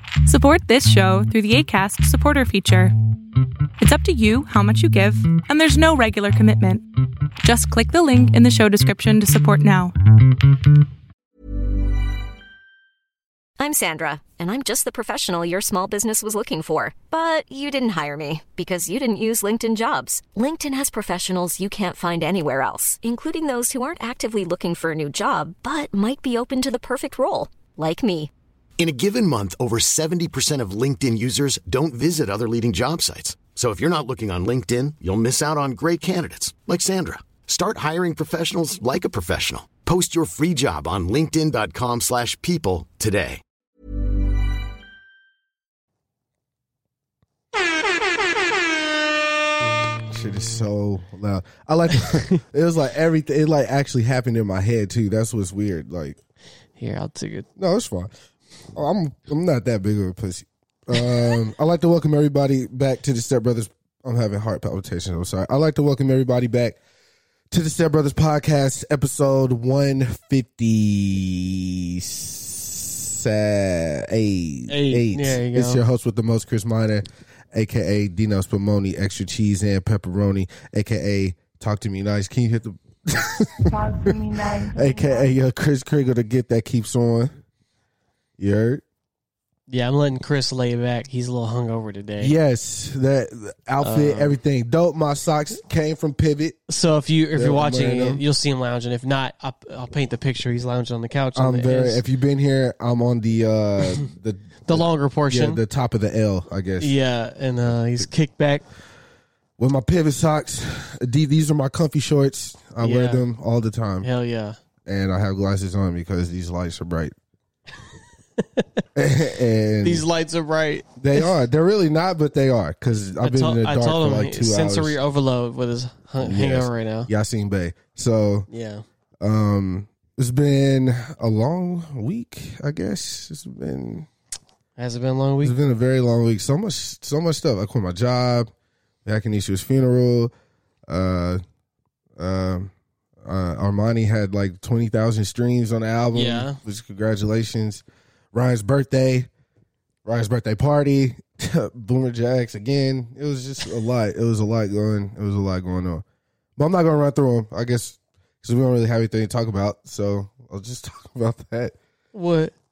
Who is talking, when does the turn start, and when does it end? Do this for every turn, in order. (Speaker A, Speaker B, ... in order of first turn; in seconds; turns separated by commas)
Speaker A: 0.2-2.9, Speaker A: 3.8-6.8, Speaker A: 7.4-9.9, Speaker B: 13.6-28.3, Speaker C: 28.8-43.4, Speaker D: 50.0-56.2, Speaker E: 56.8-57.5, Speaker D: 57.6-58.1, Speaker D: 58.7-66.8, Speaker D: 67.5-87.3, Speaker E: 74.7-75.8, Speaker D: 88.4-88.8, Speaker E: 89.7-92.3, Speaker D: 92.2-96.6, Speaker E: 93.8-94.4, Speaker E: 96.7-102.0, Speaker D: 97.3-98.2, Speaker D: 101.3-106.9, Speaker E: 104.6-105.6, Speaker E: 106.8-108.6, Speaker D: 109.6-114.1, Speaker E: 112.8-113.2, Speaker E: 114.0-114.6, Speaker D: 114.8-117.1, Speaker E: 118.4-118.8, Speaker D: 118.9-120.0, Speaker E: 119.8-121.3, Speaker D: 121.0-125.0, Speaker E: 123.2-127.1, Speaker D: 126.2-128.5, Speaker E: 128.5-128.8, Speaker D: 129.2-134.1, Speaker E: 134.8-135.6, Speaker D: 135.4-138.5, Speaker D: 139.0-140.3, Speaker D: 140.9-141.4, Speaker D: 142.2-149.3, Speaker E: 146.1-146.6, Speaker D: 150.0-156.0, Speaker D: 156.6-161.7, Speaker E: 162.1-162.5